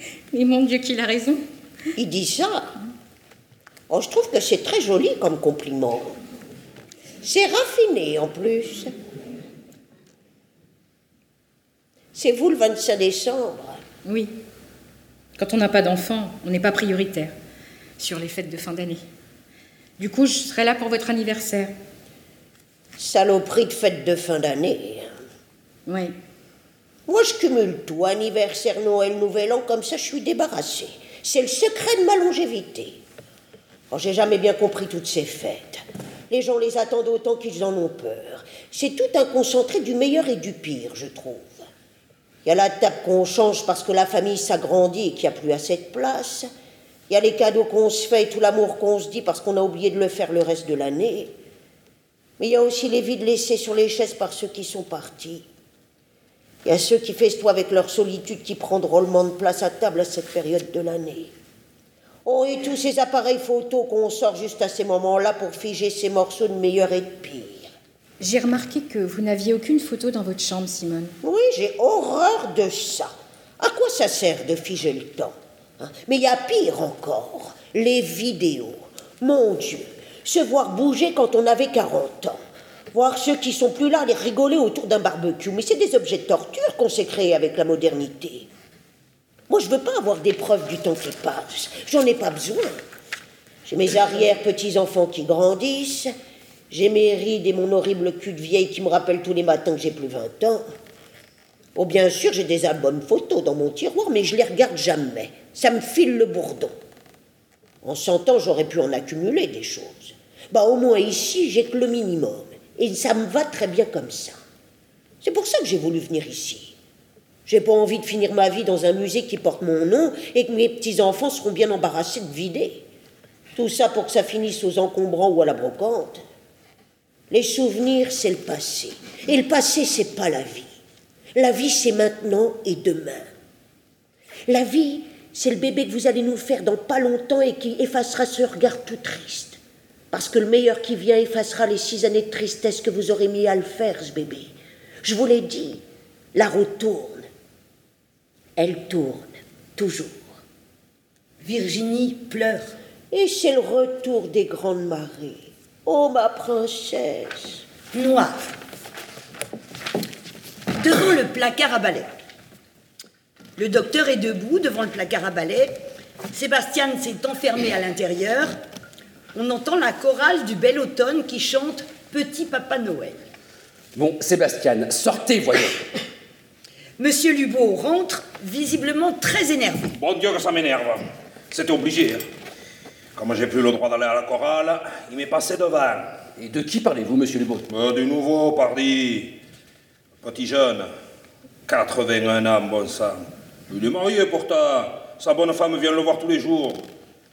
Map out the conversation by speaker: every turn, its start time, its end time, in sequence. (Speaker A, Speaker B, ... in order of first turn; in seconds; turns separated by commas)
Speaker A: 0.3-1.4, Speaker B: 2.0-2.7, Speaker B: 3.9-6.2, Speaker B: 7.2-8.9, Speaker B: 12.1-13.8, Speaker A: 14.1-14.3, Speaker A: 15.4-17.3, Speaker A: 18.0-19.0, Speaker A: 20.0-21.7, Speaker B: 23.0-25.1, Speaker A: 25.9-26.1, Speaker B: 27.1-33.0, Speaker B: 33.9-41.6, Speaker B: 42.5-46.5, Speaker B: 47.1-51.3, Speaker B: 52.4-55.5, Speaker B: 56.6-61.3, Speaker B: 62.2-67.7, Speaker A: 68.2-71.1, Speaker B: 71.2-82.4, Speaker B: 82.9-88.5, Speaker B: 89.5-92.8, Speaker B: 93.7-96.1, Speaker B: 96.7-100.6, Speaker B: 101.8-106.7, Speaker B: 107.8-114.4, Speaker B: 115.2-116.8, Speaker B: 117.5-122.8, Speaker B: 123.6-126.2, Speaker B: 127.3-130.7, Speaker B: 131.3-133.3, Speaker B: 134.5-139.6, Speaker B: 140.1-145.8, Speaker B: 146.3-147.3, Speaker B: 148.6-150.3, Speaker C: 151.4-152.7, Speaker B: 153.1-157.6, Speaker C: 157.9-158.4, Speaker C: 160.8-162.1, Speaker C: 163.6-165.7, Speaker C: 166.3-168.5, Speaker C: 169.3-173.2, Speaker D: 173.9-175.8, Speaker C: 177.0-180.0, Speaker E: 180.0-182.2, Speaker E: 183.2-186.1, Speaker D: 186.4-187.7, Speaker E: 187.7-189.4, Speaker E: 190.2-190.9, Speaker E: 191.7-196.8